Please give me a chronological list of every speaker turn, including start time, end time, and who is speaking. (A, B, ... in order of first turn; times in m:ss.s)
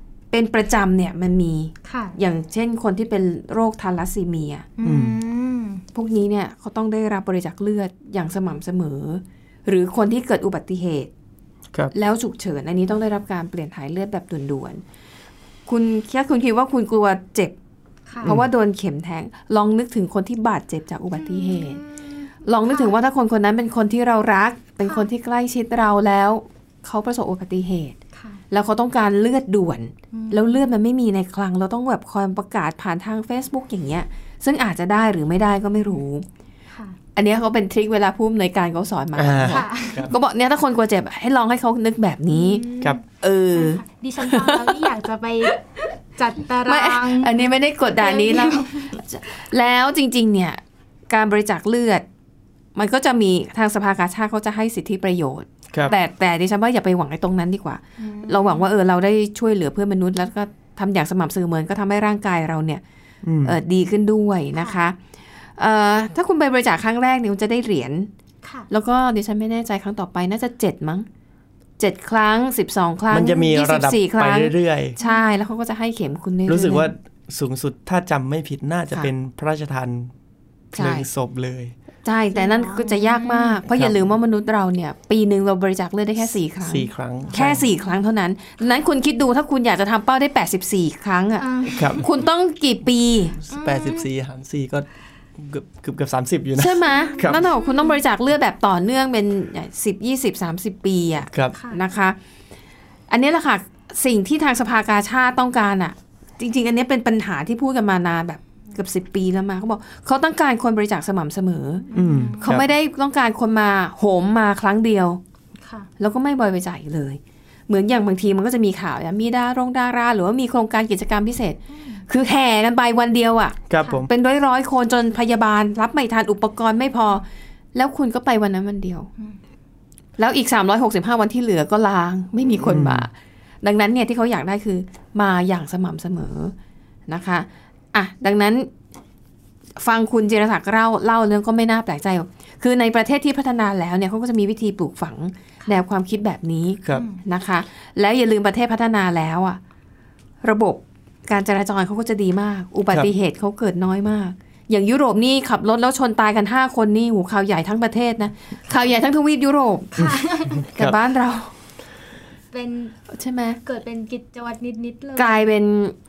0:00.3-0:04.7 A
0:01.8-0:02.1 B
0:04.8-0:05.8 B
0:04.8-0:05.2 C
0:05.9-0:11.1 A
0:11.9-0:14.8 A
0:15.7-0:17.5 A
0:18.2-0:21.8 A
0:21.2-0:22.9 B
0:22.4-0:28.0 A
0:24.8-0:25.1 B
0:28.1-0:28.4 B
0:28.5-0:36.2 A
0:30.1-0:30.6 B
0:36.7-0:37.0 B
0:37.2-0:42.6 A
0:39.2-0:40.1 C
0:39.5-0:40.1 B
0:42.3-0:43.0 B
0:43.2-0:44.9 A
0:43.5-0:47.3 B
0:46.6-0:52.0 A
0:48.0-0:48.9 B
0:52.7-1:02.8 A
0:58.0-0:58.7 B
1:03.2-1:03.6 C
1:03.4-1:05.0 A
1:04.6-1:04.8 B
1:05.6-1:08.1 A
1:08.7-1:11.1 A
1:11.8-1:16.9 A
1:13.1-1:15.0 C
1:15.0-1:15.4 B
1:16.5-1:20.1 C
1:20.7-1:21.7 C
1:20.8-1:21.0 A
1:22.0-1:33.4 A
1:22.3-1:23.6 B
1:23.7-1:24.0 C
1:26.6-1:27.7 C
1:27.3-1:27.9 B
1:31.4-1:32.0 B
1:31.7-1:32.0 C
1:33.4-1:34.8 C
1:33.5-1:34.0 B
1:35.4-1:37.4 C
1:36.6-1:42.2 A
1:36.9-1:38.0 B
1:43.1-1:51.9 A
1:51.9-1:52.5 B
1:51.9-1:52.7 C
1:52.4-1:55.2 A
1:55.6-1:55.9 B
1:56.0-2:09.1 A
2:01.7-2:02.0 B
2:03.7-2:04.1 C
2:10.2-2:13.1 A
2:12.6-2:13.1 C
2:13.6-2:16.5 A
2:17.1-2:18.7 A
2:19.8-2:29.6 A
2:26.9-2:27.2 B
2:30.4-2:40.0 A
2:39.9-2:40.6 B
2:40.0-2:41.0 C
2:40.7-2:41.5 A
2:42.5-2:42.9 B
2:43.1-2:43.6 A
2:43.6-2:45.5 B
2:45.2-2:45.9 A